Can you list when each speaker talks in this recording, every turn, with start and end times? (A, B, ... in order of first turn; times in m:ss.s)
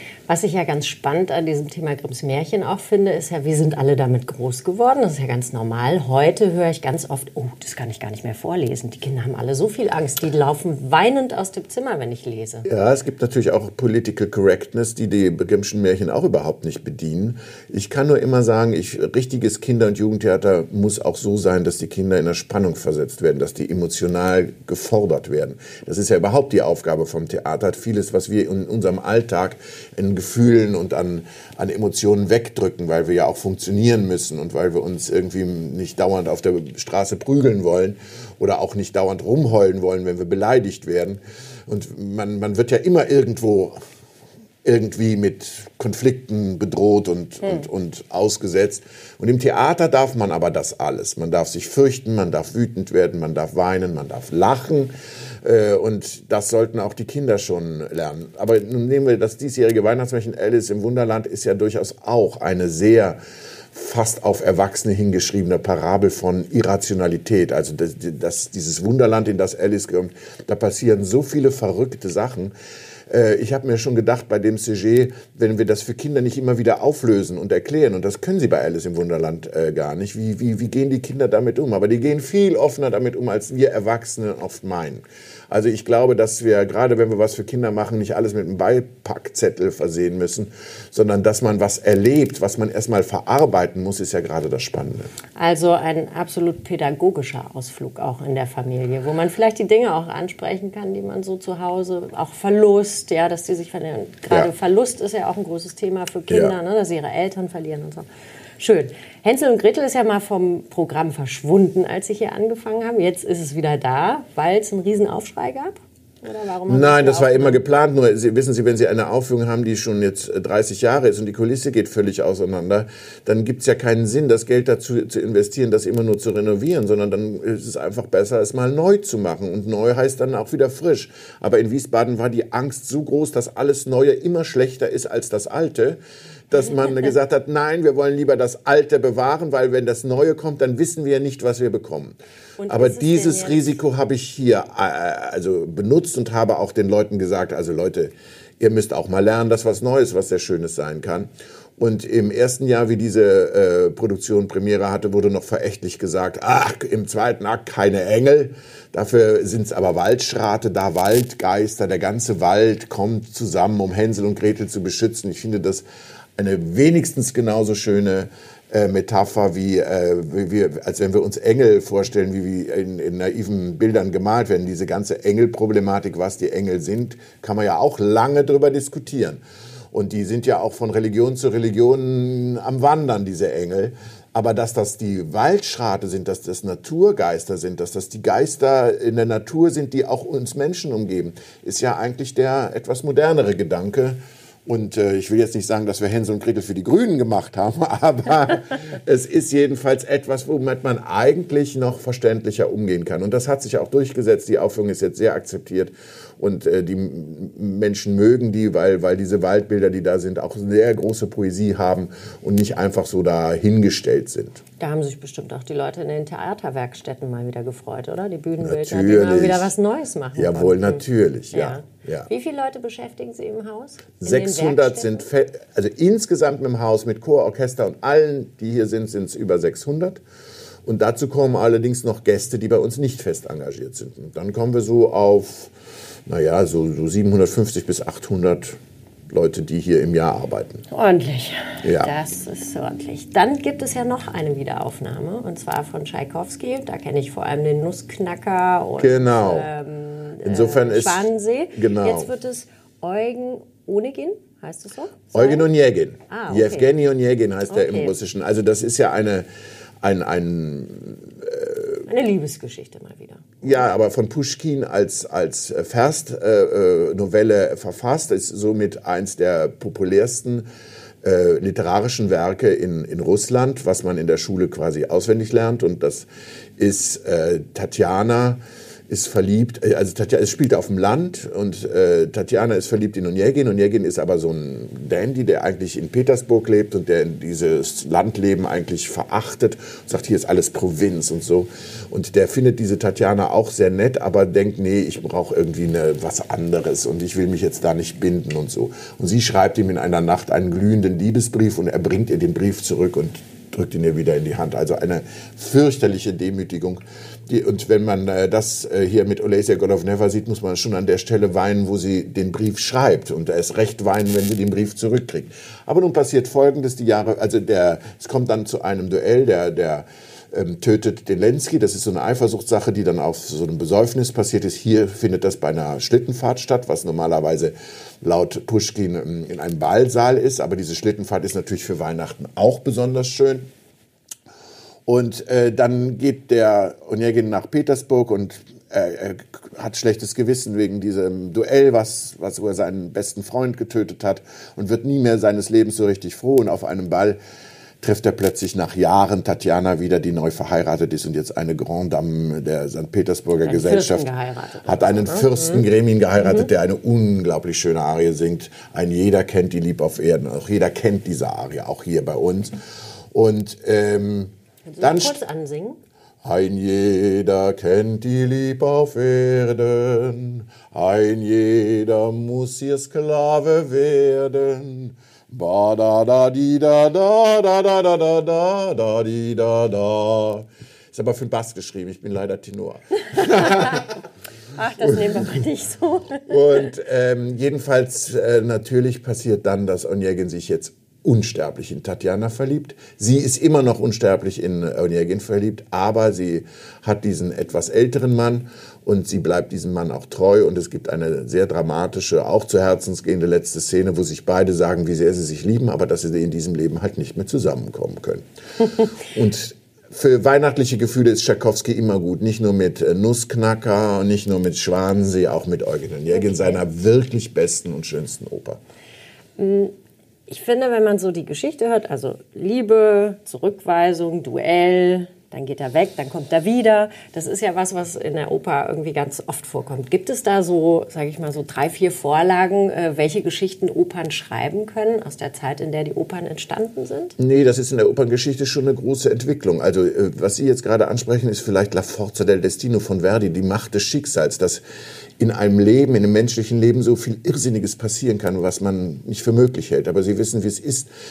0:00.3-0:12.7 A
0:12.6-0:43.8 B
0:44.6-0:54.9 B
0:55.4-1:03.2 B
1:03.7-1:12.5 B
1:13.1-1:35.1 B
1:35.4-1:48.1 A
1:46.3-1:46.6 B
1:48.6-1:57.6 A
1:56.7-2:22.2 B
2:16.6-2:17.1 A
2:22.6-2:23.8 A
2:22.7-2:45.8 B
2:46.4-2:59.4 B
2:59.9-3:34.6 B
3:34.8-3:45.3 A
3:38.6-3:39.7 B
3:40.4-3:42.3 B
3:44.2-3:50.2 B
3:50.8-3:55.7 B
3:56.3-4:00.8 B
4:00.9-4:15.7 A
4:01.8-4:02.2 B
4:09.0-4:09.7 B
4:10.4-4:12.3 B
4:15.3-4:19.5 B
4:16.3-4:16.9 A
4:17.7-4:18.2 A
4:20.0-4:22.0 B
4:22.1-4:23.9 A
4:23.6-4:30.7 B
4:31.2-5:33.7 B
5:35.1-5:47.4 B
5:48.0-5:54.3 B
5:53.6-5:55.8 A
5:54.8-6:02.8 B
5:56.4-5:56.7 A
6:03.3-6:05.4 B
6:04.9-6:06.0 A
6:06.4-6:24.2 B
6:23.5-6:24.0 A
6:24.8-6:26.9 A
6:26.5-6:58.8 B
6:56.3-6:56.8 A
6:59.6-6:59.9 A
7:00.5-7:17.4 A
7:17.4-7:24.8 B
7:25.4-7:31.1 B